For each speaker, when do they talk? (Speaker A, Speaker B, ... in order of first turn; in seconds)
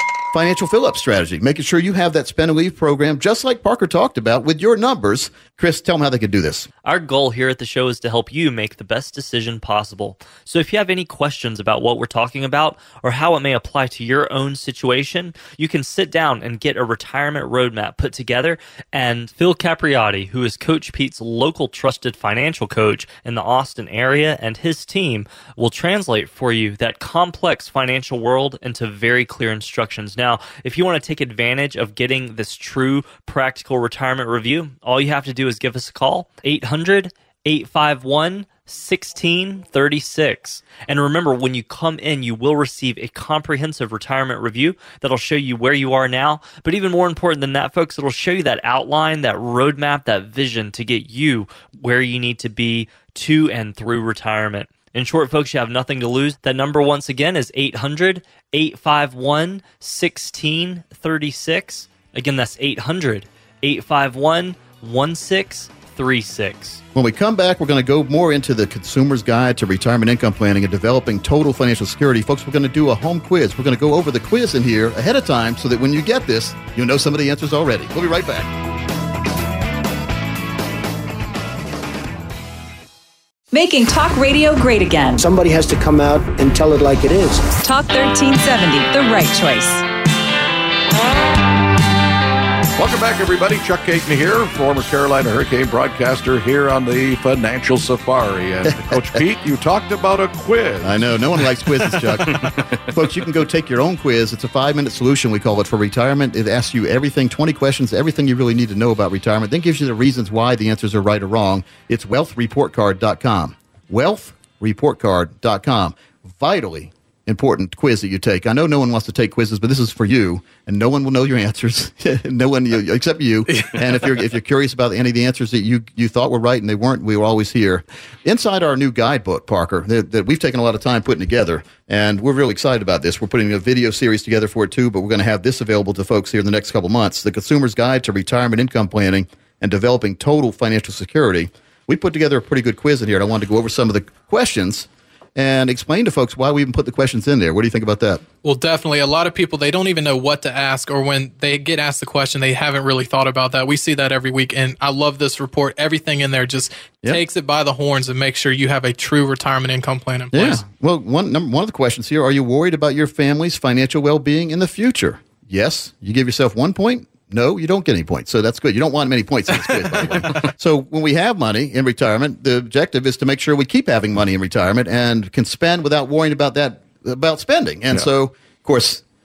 Speaker A: 0.3-6.7, 66.9-78.5, 98.7-99.0, 100.8-148.2, 160.3-179.0
Speaker B: 6.8-66.8
Speaker C: 83.5-85.2, 87.6-89.8
Speaker D: 85.2-87.5
Speaker E: 92.8-101.0
Speaker F: 148.4-160.6